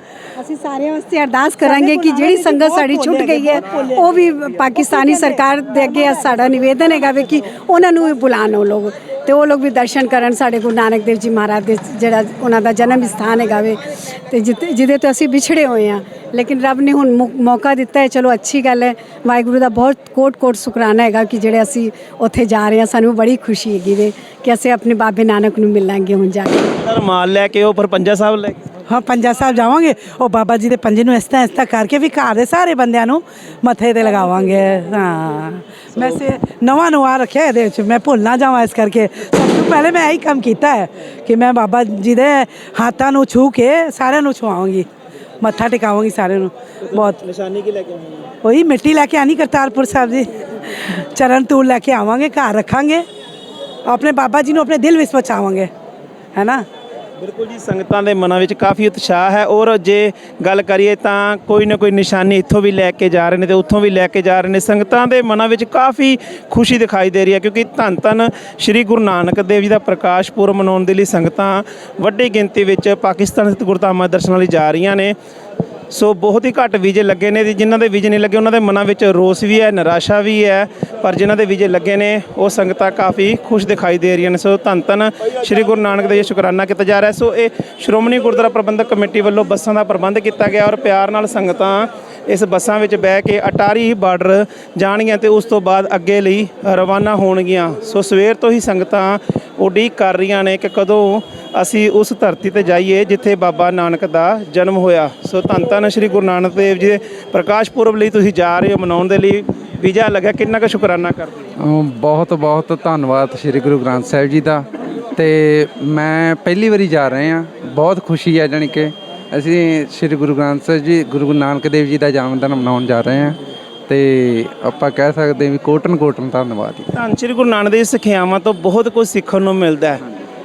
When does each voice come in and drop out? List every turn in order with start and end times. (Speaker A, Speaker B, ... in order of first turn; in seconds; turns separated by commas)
Speaker A: 0.4-26.8, Speaker B: 1.6-6.4, Speaker C: 26.8-28.6, Speaker B: 28.9-44.9, Speaker B: 45.4-47.2, Speaker C: 47.0-48.3, Speaker B: 48.4-53.0, Speaker B: 53.9-55.7, Speaker B: 56.4-56.6, Speaker C: 57.2-75.2, Speaker C: 75.9-111.5, Speaker D: 111.6-126.9, Speaker C: 126.9-130.0